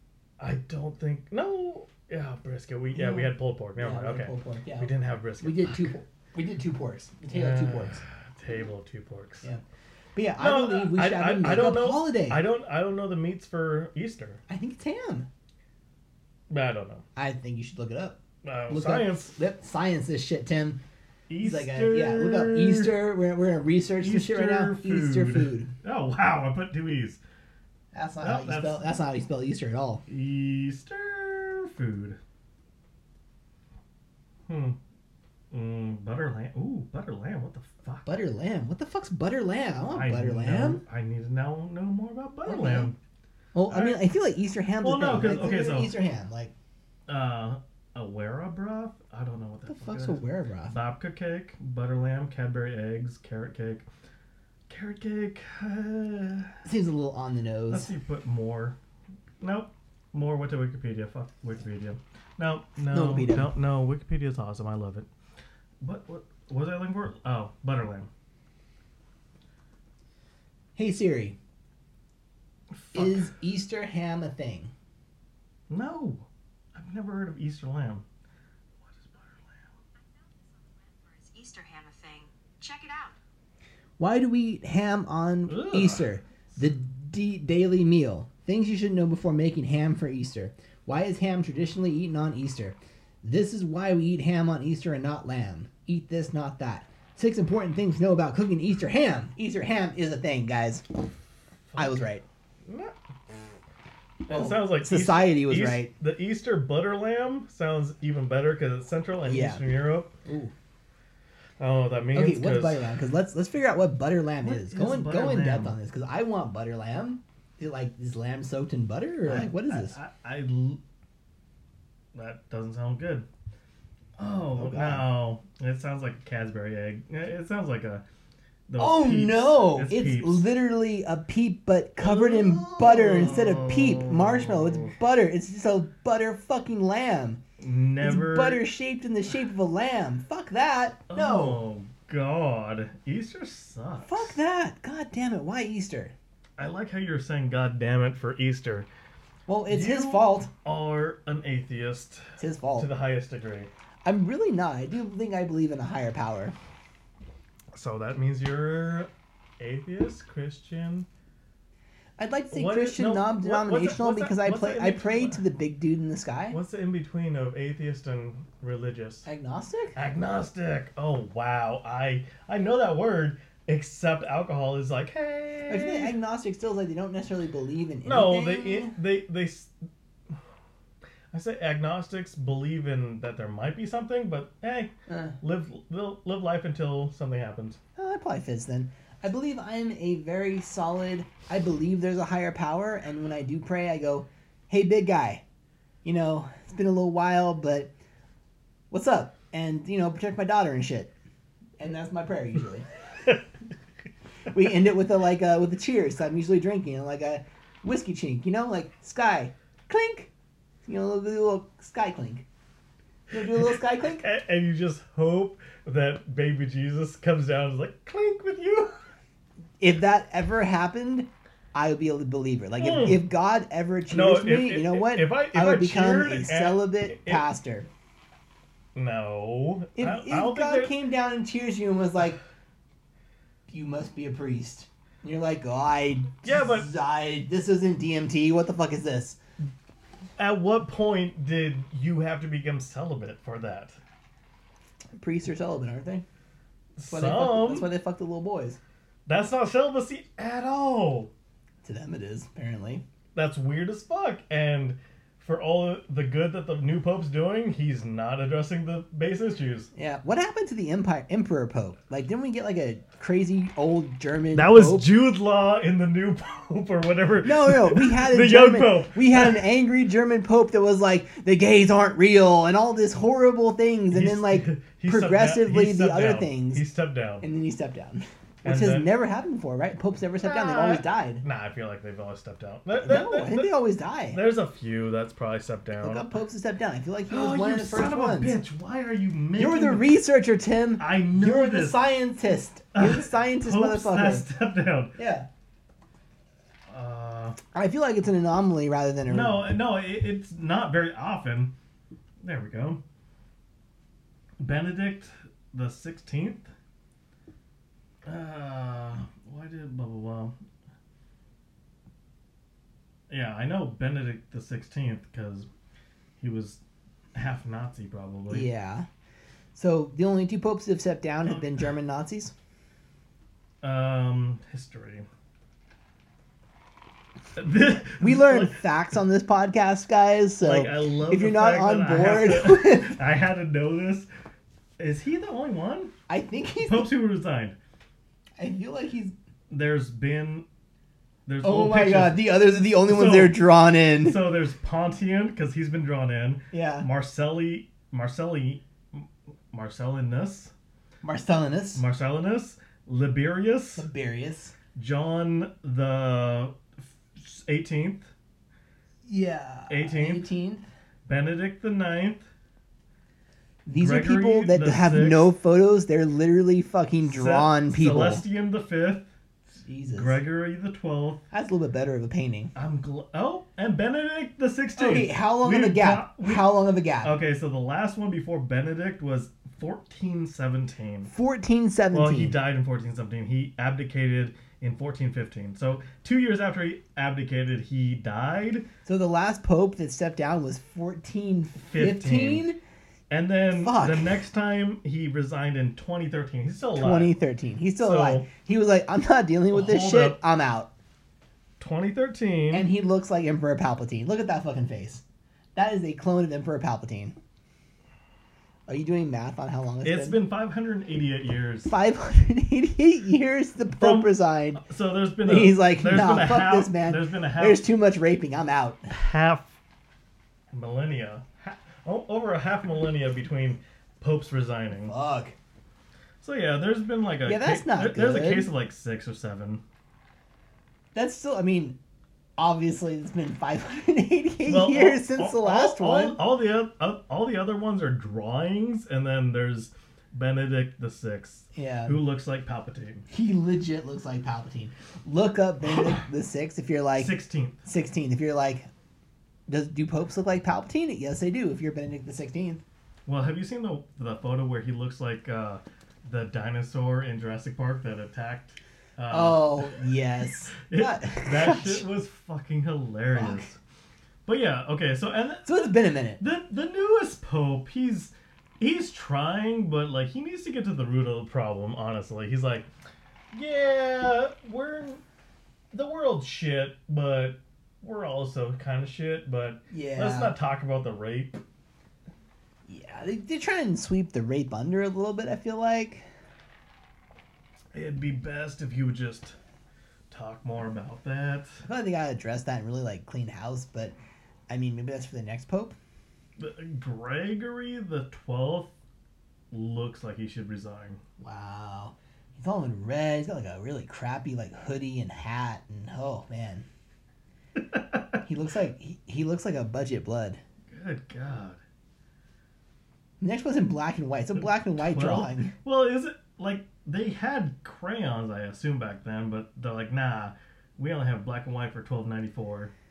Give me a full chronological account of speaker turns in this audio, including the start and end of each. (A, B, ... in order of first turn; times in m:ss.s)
0:00.4-0:05.9 A
0:02.9-0:08.0 B
0:07.3-0:09.4 A
0:10.1-0:12.4 B
0:10.4-0:14.4 A
0:14.5-0:15.3 B
0:16.5-0:17.0 A
0:17.1-0:20.8 B
0:18.4-0:19.3 A
0:21.3-0:23.0 A
0:21.4-0:25.7 B
0:24.0-0:27.2 A
0:27.9-0:30.0 B
0:28.2-0:28.8 A
0:30.1-0:32.2 A
0:34.5-0:34.8 A
0:35.5-0:38.1 A
0:38.0-0:40.8 B
0:39.9-0:43.0 A
0:42.4-0:42.9 B
0:43.5-0:46.5 B
0:43.7-0:44.0 A
0:44.8-0:45.9 A
0:47.1-0:53.9 A
0:49.7-0:50.8 B
0:54.7-0:56.6 A
0:56.6-0:57.9 B
0:57.7-0:58.8 A
0:59.4-1:05.1 A
1:02.9-1:03.5 B
1:05.8-1:08.1 A
1:10.8-1:11.4 B
1:12.7-1:13.3 A
1:12.9-1:14.7 B
1:15.7-1:18.0 A
1:18.8-1:19.7 A
1:20.2-1:23.2 C
1:24.0-1:40.8 B
1:25.5-1:26.1 A
1:41.8-1:42.2 B
1:42.6-1:43.5 A
1:44.2-1:50.1 A
1:44.3-1:45.9 B
1:49.2-1:49.7 B
1:50.2-1:50.5 B
1:51.6-1:52.8 A
1:52.1-2:00.0 B
1:54.4-1:55.8 A
1:59.2-2:00.8 A
2:02.1-2:03.2 A
2:04.2-2:08.0 A
2:04.5-2:05.1 B
2:08.7-2:10.5 A
2:08.8-2:17.4 B
2:12.0-2:14.9 A
2:17.6-2:18.6 A
2:18.0-2:21.6 B
2:21.1-2:24.3 A
2:24.0-2:26.1 B
2:26.6-2:28.9 A
2:29.5-2:30.5 B
2:29.7-2:33.7 A
2:32.4-2:32.9 B
2:34.0-2:36.6 B
2:37.7-2:41.1 A
2:42.2-2:46.6 B
2:42.5-2:45.4 A
2:46.5-2:49.2 A
2:49.2-2:50.0 B
2:50.0-2:56.2 A
2:55.7-2:58.9 B
2:58.0-2:59.7 A
3:01.3-3:07.8 A
3:05.1-3:05.4 B
3:08.0-3:15.4 B
3:16.0-3:17.9 B
3:18.9-3:21.1 B
3:21.8-3:22.9 B
3:24.5-3:30.3 B
3:30.8-3:32.4 B
3:33.3-3:34.2 B
3:33.6-3:39.0 A
3:39.8-3:47.9 B
3:42.8-3:43.2 A
3:44.1-3:47.4 A
3:48.9-3:50.9 A
3:50.0-3:52.4 B
3:53.7-3:59.4 B
3:56.4-3:56.9 A
4:00.4-4:04.0 A
4:05.1-4:06.2 B
4:07.0-4:07.9 A
4:07.1-4:08.8 B
4:09.2-4:11.3 A
4:11.8-4:13.0 B
4:13.3-4:19.9 A
4:19.9-4:25.1 B
4:24.5-4:29.7 A
4:27.4-4:36.8 B
4:34.1-4:37.4 A
4:37.4-4:41.4 B
4:38.6-4:39.1 A
4:40.4-4:43.7 A
4:43.0-4:44.4 B
4:44.3-4:46.4 A
4:46.0-4:48.6 B
4:47.3-4:50.1 A
4:49.6-4:54.4 B
4:51.0-4:52.0 A
4:52.9-4:55.1 A
4:55.2-4:55.5 B
4:56.9-4:57.6 A
4:57.7-4:59.7 B
4:59.3-5:01.7 A
5:02.4-5:03.0 A
5:04.6-5:06.7 A
5:08.2-5:10.6 A
5:13.3-5:15.7 A
5:16.4-5:16.8 A
5:17.3-5:18.7 A
5:18.5-5:19.0 B
5:19.7-5:22.5 B
5:21.4-5:21.8 A
5:23.8-5:25.2 A
5:27.6-5:28.8 A
5:28.2-5:33.2 B
5:30.6-5:34.3 A
5:35.0-5:36.1 A
5:36.3-5:37.1 B
5:36.8-5:37.8 A
5:38.6-5:39.3 B
5:39.7-5:40.6 A
5:41.4-5:43.7 A
5:41.6-5:44.4 B
5:44.2-5:50.7 A
5:46.7-5:47.1 B
5:51.2-5:52.0 B
5:52.0-5:54.1 A
5:54.0-5:54.7 B
5:54.9-5:58.3 A
5:59.2-6:00.8 B
5:59.9-6:00.4 A
6:01.2-6:02.4 A
6:03.8-6:08.4 B
6:03.9-6:05.5 A
6:07.2-6:09.2 A
6:09.8-6:10.4 B
6:10.1-6:11.4 A
6:11.5-6:12.7 B
6:12.7-6:21.3 A
6:15.0-6:17.3 B
6:21.3-6:22.6 B
6:22.1-6:28.9 A
6:29.0-6:32.8 B
6:31.9-6:32.6 A
6:33.3-6:37.3 A
6:33.7-6:34.4 B
6:37.0-6:40.9 B
6:38.0-6:38.5 A
6:39.7-6:40.4 A
6:41.8-6:42.9 A
6:42.7-6:45.2 B
6:45.7-6:47.4 B
6:48.9-6:50.4 B
6:50.0-6:51.9 A
6:51.9-6:54.8 B
6:54.0-6:57.8 A
6:55.4-6:59.1 B
6:59.1-6:59.8 A
7:00.7-7:05.1 A
7:05.0-7:05.5 B
7:06.4-7:09.8 A
7:07.4-7:08.7 B
7:11.1-7:12.0 B
7:12.6-7:16.4 B
7:14.6-7:23.2 A
7:21.7-7:22.2 B
7:23.3-7:27.3 B
7:27.2-7:27.8 A
7:27.8-7:28.9 B
7:29.7-7:32.8 B
7:33.2-7:40.0 A
7:39.3-7:42.0 B
7:40.8-7:43.8 A
7:43.3-7:43.7 B
7:44.4-7:45.9 A
7:45.6-7:46.4 B
7:46.4-7:52.9 A
7:53.5-7:55.2 A
7:55.9-8:01.6 A
7:59.9-8:00.5 B
8:02.9-8:06.2 B
8:07.9-8:09.6 A
8:10.3-8:11.8 A
8:11.8-8:14.2 B
8:14.7-8:15.9 B
8:16.6-8:18.9 A
8:19.7-8:21.2 A
8:21.4-8:26.8 B
8:27.8-8:28.2 A
8:28.4-8:30.6 B
8:30.9-8:31.8 A
8:33.4-8:35.7 B
8:34.6-8:42.9 A